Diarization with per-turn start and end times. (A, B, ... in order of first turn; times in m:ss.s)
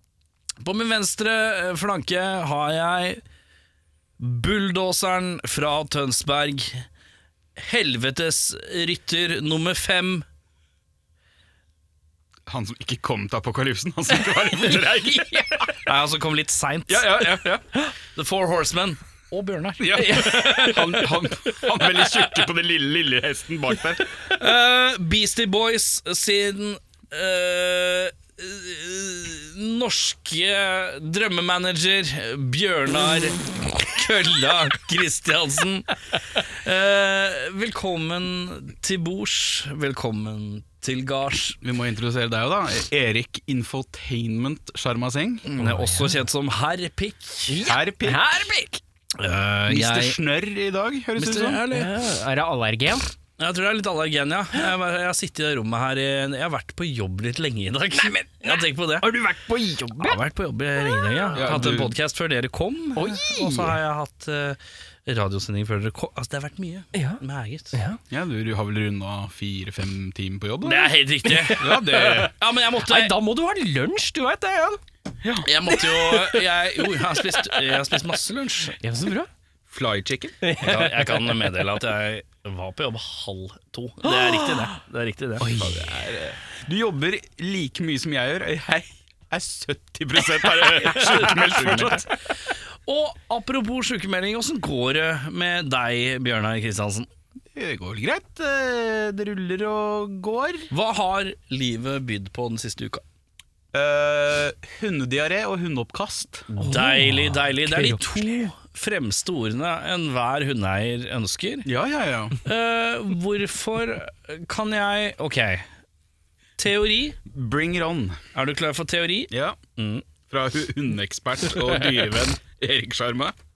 0:00.6-0:03.2 A
0:04.2-0:06.8 A
0:07.6-0:10.2 A
0:12.5-0:15.7 B
0:15.8-0:21.1 A
0:16.9-0:17.6 B
0:19.8-0:24.0 B
0:20.1-0:20.6 C
0:24.3-0:41.6 A
0:41.6-0:45.5 B
0:45.5-0:47.6 A
0:45.6-0:46.2 C
0:47.5-0:48.8 C
0:47.6-0:48.3 B
0:49.2-0:50.2 A
0:49.7-0:51.6 B
0:51.2-0:51.9 A
0:51.7-0:53.1 C
0:53.4-0:59.1 A
0:58.0-1:00.2 C
1:00.0-1:07.8 A
1:00.8-1:01.4 C
1:01.4-1:01.9 B
1:03.0-1:03.8 C
1:06.9-1:07.2 C
1:07.7-1:08.0 C
1:08.1-1:10.9 B
1:10.6-1:13.2 A
1:11.2-1:12.3 C
1:11.5-1:12.3 B
1:12.8-1:14.8 C
1:15.2-1:15.5 B
1:15.4-1:18.8 A
1:17.4-1:17.6 C
1:18.8-1:19.3 C
1:19.7-1:20.4 B
1:20.4-1:21.5 C
1:20.6-1:25.6 A
1:24.1-1:24.8 C
1:25.4-1:25.9 C
1:25.4-1:32.0 B
1:30.8-1:32.1 A
1:32.9-1:37.1 A
1:37.5-1:40.7 B
1:40.7-1:43.0 A
1:43.7-1:46.5 B
1:46.6-1:48.4 C
1:46.6-1:51.7 A
1:51.7-1:52.4 B
1:52.4-1:55.7 A
1:56.6-1:57.2 A
1:57.2-1:58.2 B
1:58.3-2:00.1 A
1:59.3-1:59.6 B
2:00.3-2:03.4 B